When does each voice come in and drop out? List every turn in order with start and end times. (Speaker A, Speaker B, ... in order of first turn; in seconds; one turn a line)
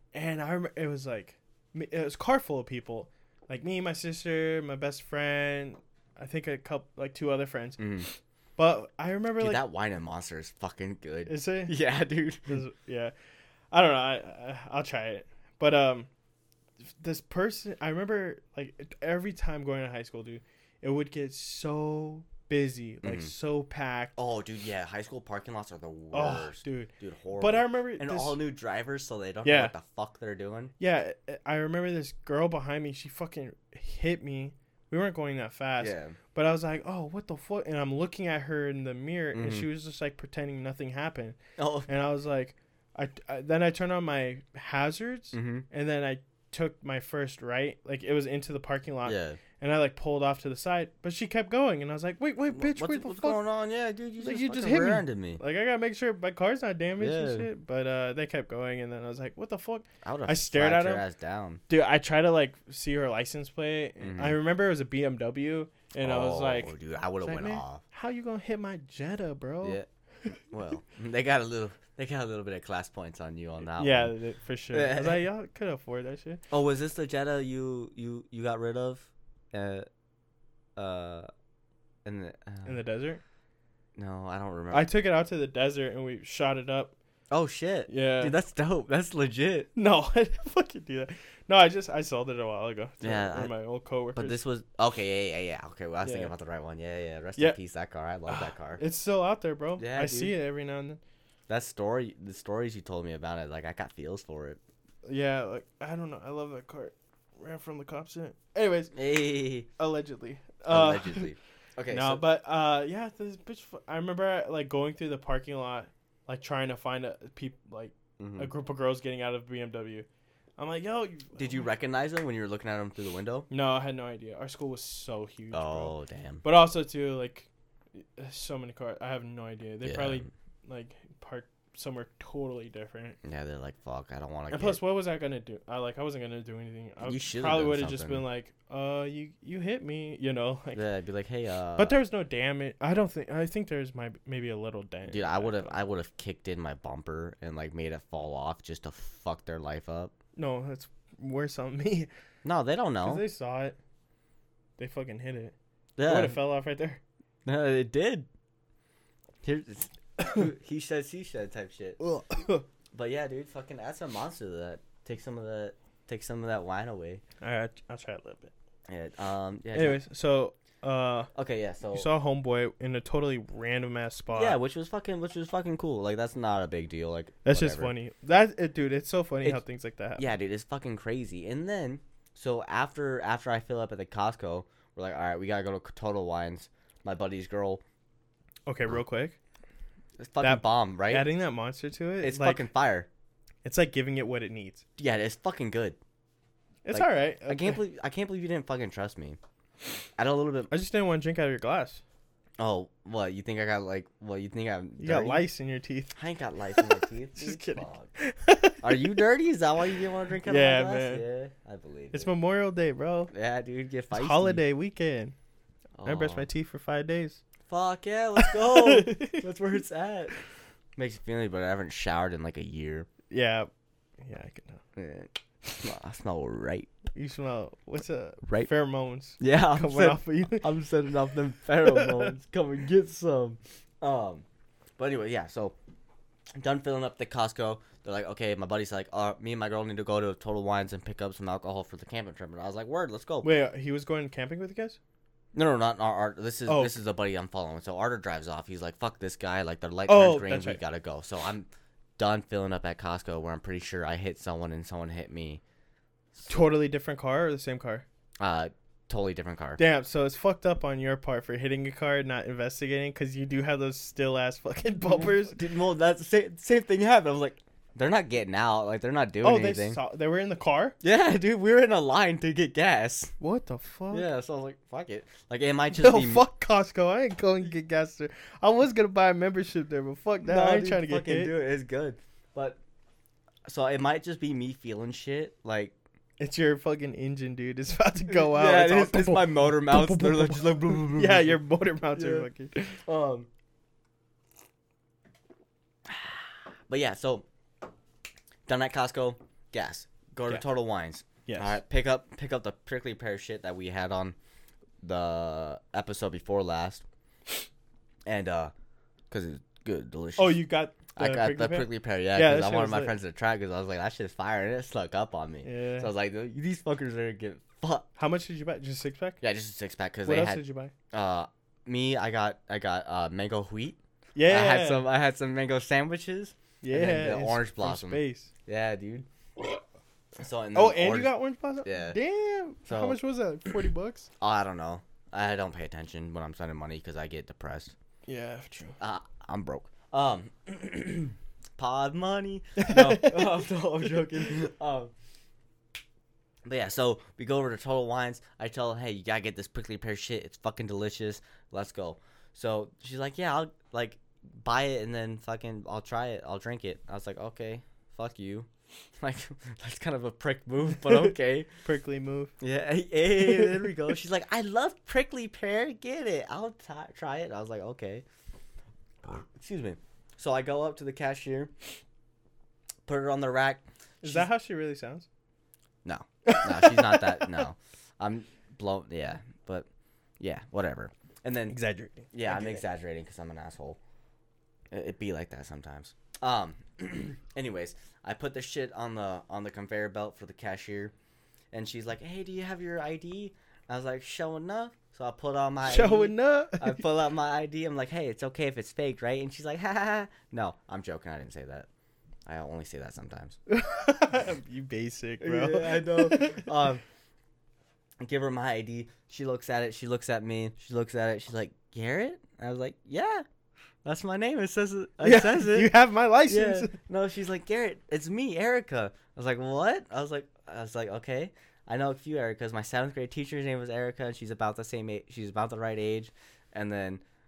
Speaker A: 0.1-9.6
Speaker B: 7.8-8.1
Speaker B: 9.4-12.6
Speaker A: 11.3-11.8
Speaker A: 12.5-13.1
Speaker A: 13.7-16.1
Speaker A: 17.0-24.1
Speaker B: 23.0-23.3
Speaker B: 24.1-30.7
Speaker A: 26.1-28.4
Speaker A: 29.4-29.7
Speaker A: 30.8-53.4
Speaker B: 35.8-36.2
Speaker B: 39.3-39.7
Speaker B: 41.6-41.9
Speaker B: 45.3-45.7
Speaker B: 49.0-49.4
Speaker B: 52.5-55.4
Speaker A: 54.2-61.0
Speaker B: 57.0-57.5
Speaker B: 60.0-61.6
Speaker A: 61.7-69.8
Speaker B: 64.0-64.4
Speaker B: 66.0-67.8
Speaker B: 70.5-74.2
Speaker A: 73.7-76.4
Speaker B: 74.7-75.2
Speaker B: 76.5-79.8
Speaker B: 80.8-81.3
Speaker B: 82.0-82.8
Speaker A: 82.7-83.2
Speaker B: 84.0-84.9
Speaker A: 84.7-87.0
Speaker B: 87.3-89.7
Speaker A: 87.9-88.4
Speaker A: 89.8-94.4
Speaker B: 93.0-93.5
Speaker B: 94.2-98.8
Speaker A: 96.0-96.3
Speaker A: 98.3-101.0
Speaker B: 99.8-100.4
Speaker B: 101.5-104.6
Speaker A: 105.0-109.0
Speaker B: 108.9-109.7
Speaker A: 109.8-111.3
Speaker B: 110.7-112.2
Speaker A: 111.9-120.0
Speaker B: 118.2-118.5
Speaker A: 120.6-121.7
Speaker B: 121.3-123.5
Speaker A: 123.5-133.2
Speaker B: 125.5-126.4
Speaker B: 129.8-130.3
Speaker B: 133.2-134.8
Speaker A: 134.5-140.8
Speaker B: 137.0-138.2
Speaker B: 140.8-142.0
Speaker A: 141.8-145.8
Speaker B: 145.1-150.1
Speaker A: 150.3-152.1
Speaker B: 152.4-153.2
Speaker A: 153.0-153.8
Speaker A: 154.8-157.0
Speaker B: 156.0-156.4
Speaker B: 157.4-158.3
Speaker B: 159.4-162.0
Speaker A: 162.0-162.7
Speaker B: 162.9-167.2
Speaker A: 167.4-168.5
Speaker B: 168.9-170.0
Speaker A: 169.7-171.3
Speaker B: 171.3-172.1
Speaker A: 171.9-174.6
Speaker B: 174.3-177.9
Speaker A: 177.4-180.3
Speaker B: 180.2-187.8
Speaker A: 188.7-189.4
Speaker B: 190.2-191.3
Speaker A: 190.4-192.7
Speaker B: 192.2-193.1
Speaker A: 193.6-194.8
Speaker B: 195.0-196.0
Speaker A: 196.8-197.8
Speaker B: 196.9-199.4
Speaker B: 200.2-200.7
Speaker A: 200.7-202.0
Speaker B: 202.6-205.4
Speaker A: 205.0-206.1
Speaker B: 206.2-208.1
Speaker A: 206.8-209.2
Speaker B: 208.8-212.3
Speaker A: 210.4-211.2
Speaker A: 212.1-213.3
Speaker B: 213.3-214.6
Speaker A: 214.1-215.3
Speaker B: 216.0-216.5
Speaker A: 216.0-217.4
Speaker B: 217.7-220.3
Speaker A: 218.4-219.4
Speaker B: 221.0-223.1
Speaker A: 223.3-223.7
Speaker A: 224.2-224.8
Speaker B: 224.9-226.9
Speaker A: 227.2-230.7
Speaker B: 228.4-228.7
Speaker B: 229.4-234.4
Speaker A: 231.8-232.3
Speaker B: 235.0-235.8
Speaker B: 236.6-243.5
Speaker A: 243.4-245.0
Speaker B: 245.5-251.7
Speaker A: 246.7-247.0
Speaker A: 250.1-250.8
Speaker B: 252.2-255.6
Speaker B: 256.3-256.7
Speaker A: 256.5-258.0
Speaker B: 258.4-259.8
Speaker A: 259.8-265.6
Speaker B: 265.1-270.0
Speaker A: 269.4-271.0
Speaker B: 271.0-273.3
Speaker A: 273.4-274.3
Speaker B: 274.1-276.5
Speaker A: 275.9-281.5
Speaker B: 280.4-282.8
Speaker B: 283.7-285.9
Speaker A: 286.4-293.0
Speaker B: 288.3-291.6
Speaker B: 292.1-292.5
Speaker B: 293.0-293.5
Speaker B: 296.1-297.5
Speaker B: 298.7-304.4
Speaker A: 301.5-301.8
Speaker B: 305.0-307.0
Speaker B: 308.2-308.7
Speaker B: 309.3-318.1
Speaker A: 310.4-313.1
Speaker A: 315.6-316.1
Speaker A: 318.2-319.4
Speaker B: 319.4-329.3
Speaker A: 320.2-320.9
Speaker A: 324.3-325.1
Speaker A: 326.8-328.5
Speaker B: 330.4-331.3
Speaker A: 330.8-334.3
Speaker B: 331.8-332.2
Speaker B: 332.9-333.2
Speaker B: 334.4-337.9
Speaker A: 338.3-339.0
Speaker B: 339.0-345.1
Speaker A: 342.8-343.4
Speaker B: 346.6-358.7
Speaker B: 359.2-361.7
Speaker A: 361.8-362.5
Speaker B: 362.6-368.2
Speaker A: 363.5-363.9
Speaker B: 369.2-371.7
Speaker B: 373.1-374.5
Speaker A: 374.2-375.2
Speaker B: 376.0-379.9
Speaker A: 376.5-377.6
Speaker B: 380.4-381.8
Speaker A: 381.7-382.8
Speaker B: 382.3-384.0
Speaker B: 384.9-391.1
Speaker B: 391.7-401.9
Speaker A: 395.8-397.0
Speaker B: 402.5-403.6
Speaker A: 403.7-406.7
Speaker B: 405.4-407.0
Speaker B: 408.2-413.4
Speaker B: 414.0-415.9
Speaker A: 415.2-417.0
Speaker B: 416.5-427.2